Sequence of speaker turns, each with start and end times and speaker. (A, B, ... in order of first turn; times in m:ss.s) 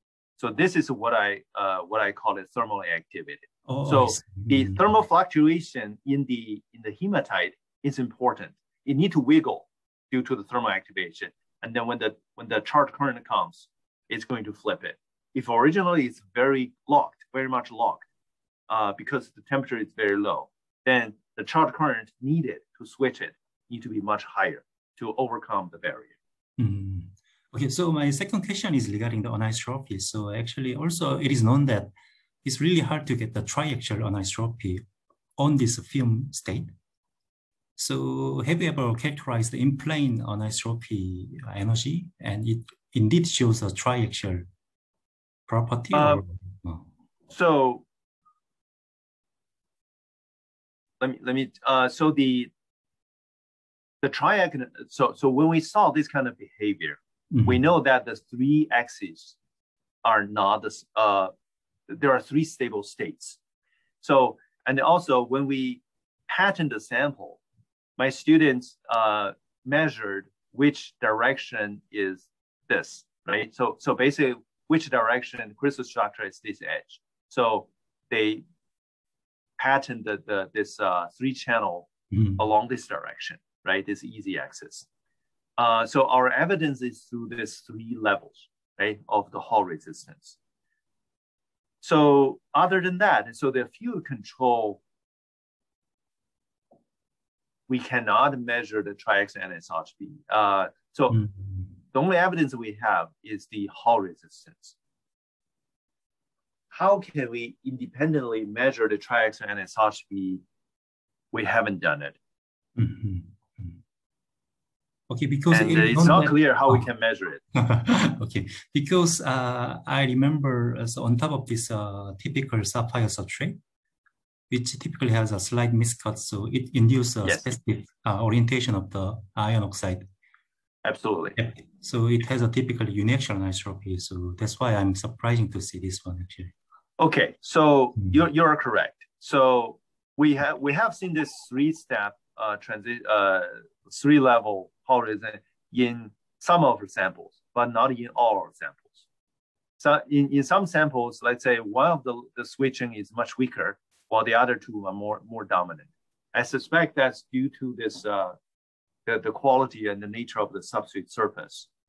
0:00.4-0:18.0 A
0:03.7-0:04.8 B
0:18.7-0:26.1 A
0:26.6-0:31.9 B
0:32.4-0:34.8 B
0:35.4-0:36.7 B
0:37.8-0:44.5 B
0:45.5-0:46.8 B
0:45.9-0:46.2 A
0:47.3-0:47.8 A
0:51.0-0:52.5 A
0:54.0-0:59.3 A
0:57.3-0:57.6 B
1:00.0-1:01.3 A
1:01.9-1:03.4 A
1:04.0-1:07.4 A
1:08.0-1:18.4 A
1:19.6-1:24.8 A
1:22.1-1:22.4 B
1:25.6-1:30.4 A
1:31.8-1:34.8 A
1:37.7-1:41.2 A
1:41.9-1:44.7 A
1:46.7-1:50.4 A
1:51.3-1:52.2 A
1:52.8-1:53.8 B
1:55.1-1:56.8 B
1:55.5-1:57.4 A
1:57.5-2:03.6 B
2:04.5-2:10.1 B
2:10.8-2:11.4 A
2:11.4-2:16.5 B
2:17.0-2:29.0 A
2:29.8-2:38.4 A
2:39.0-2:41.7 A